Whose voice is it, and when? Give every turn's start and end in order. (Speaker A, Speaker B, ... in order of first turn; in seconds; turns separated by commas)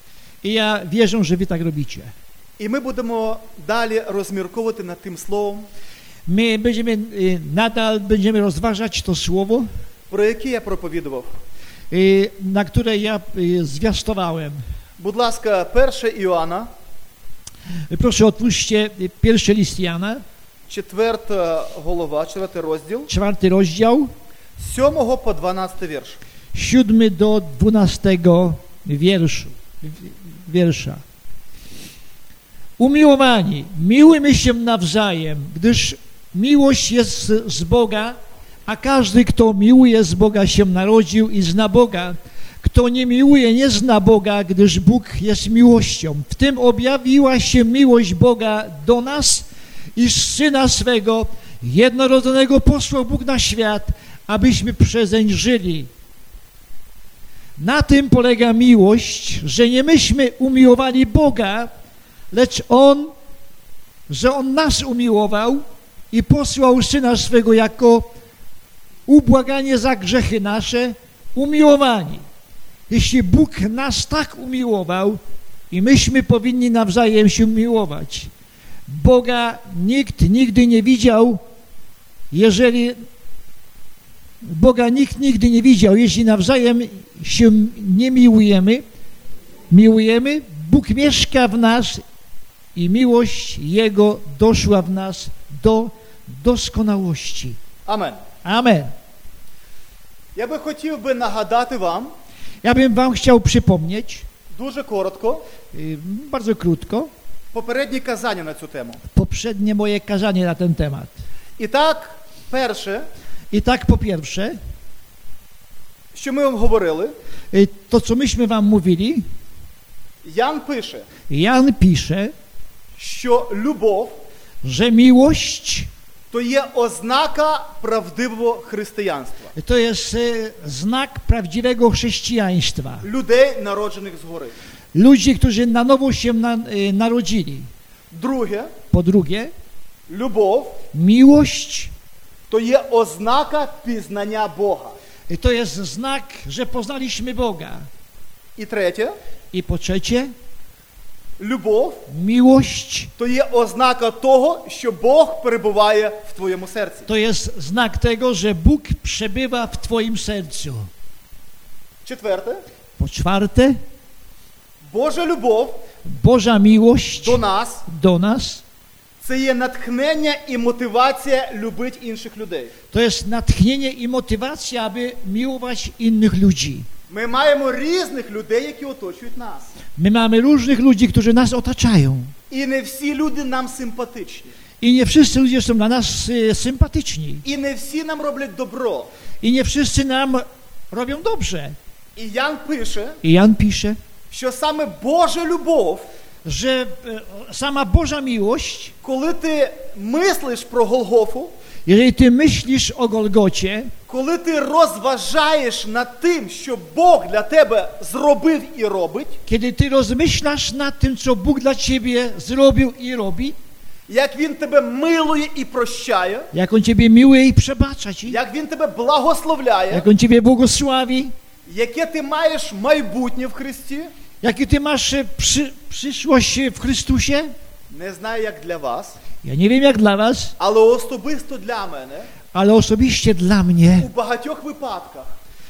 Speaker A: 0.4-2.1, Speaker B: 2.6-5.7, Speaker A: 6.3-9.7, Speaker B: 10.1-11.3, Speaker A: 11.9-14.6, Speaker B: 15.0-16.7, Speaker A: 17.9-20.2, Speaker B: 20.7-23.1, Speaker A: 23.1-24.1, Speaker B: 24.6-26.2, Speaker A: 26.5-31.0, Speaker A: 32.8-55.9, Speaker A: 57.6-61.7, Speaker A: 62.3-63.1, Speaker A: 64.1-68.1, Speaker A: 69.1-72.2, Speaker A: 72.9-75.2, Speaker A: 75.7-78.3, Speaker A: 78.9-81.4, Speaker A: 82.3-83.0, Speaker A: 84.4-88.8, Speaker A: 89.7-92.0, Speaker A: 92.8-97.6, Speaker B: 97.9-98.2, Speaker A: 98.4-98.9, Speaker B: 100.4-102.1, Speaker A: 102.6-104.3, Speaker B: 104.5-105.4, Speaker A: 105.7-107.1, Speaker B: 107.5-109.0, Speaker A: 109.1-111.2, Speaker B: 111.6-113.1, Speaker A: 113.5-114.6, Speaker B: 116.1-117.1, Speaker A: 117.5-119.2, Speaker B: 120.2-121.1, Speaker A: 121.3-122.3, Speaker B: 123.0-124.2, Speaker A: 124.6-125.9, Speaker B: 126.3-129.5, Speaker A: 129.6-133.1, Speaker B: 133.0-134.5, Speaker A: 134.9-137.7, Speaker B: 138.1-138.7, Speaker A: 138.9-139.5, Speaker B: 140.1-140.8, Speaker A: 140.9-141.9, Speaker B: 142.5-145.0, Speaker A: 145.3-147.9, Speaker B: 148.6-149.2, Speaker A: 149.5-150.3, Speaker B: 151.4-152.0, Speaker A: 152.1-153.1, Speaker B: 153.2-157.1, Speaker A: 157.1-160.9, Speaker B: 162.1-162.6, Speaker A: 163.0-163.8, Speaker B: 164.9-165.8, Speaker A: 166.1-168.6, Speaker B: 167.2-167.9, Speaker B: 169.2-172.7, Speaker A: 172.9-176.9, Speaker B: 177.1-179.7, Speaker A: 180.0-182.3, Speaker B: 182.5-184.5, Speaker A: 184.8-187.4, Speaker B: 187.4-189.1, Speaker A: 189.4-191.8, Speaker B: 192.2-193.2, Speaker A: 193.2-194.0, Speaker B: 194.3-196.1, Speaker A: 196.4-198.9, Speaker B: 199.0-201.6, Speaker A: 201.9-203.9, Speaker B: 204.1-209.4, Speaker A: 209.5-213.6, Speaker B: 214.1-216.5, Speaker A: 216.5-218.4, Speaker B: 218.3-220.1, Speaker A: 219.9-221.3, Speaker B: 221.7-224.1, Speaker A: 224.4-227.5, Speaker B: 227.9-229.2, Speaker A: 229.4-230.6, Speaker B: 230.6-232.3, Speaker A: 232.5-234.1, Speaker B: 234.0-235.3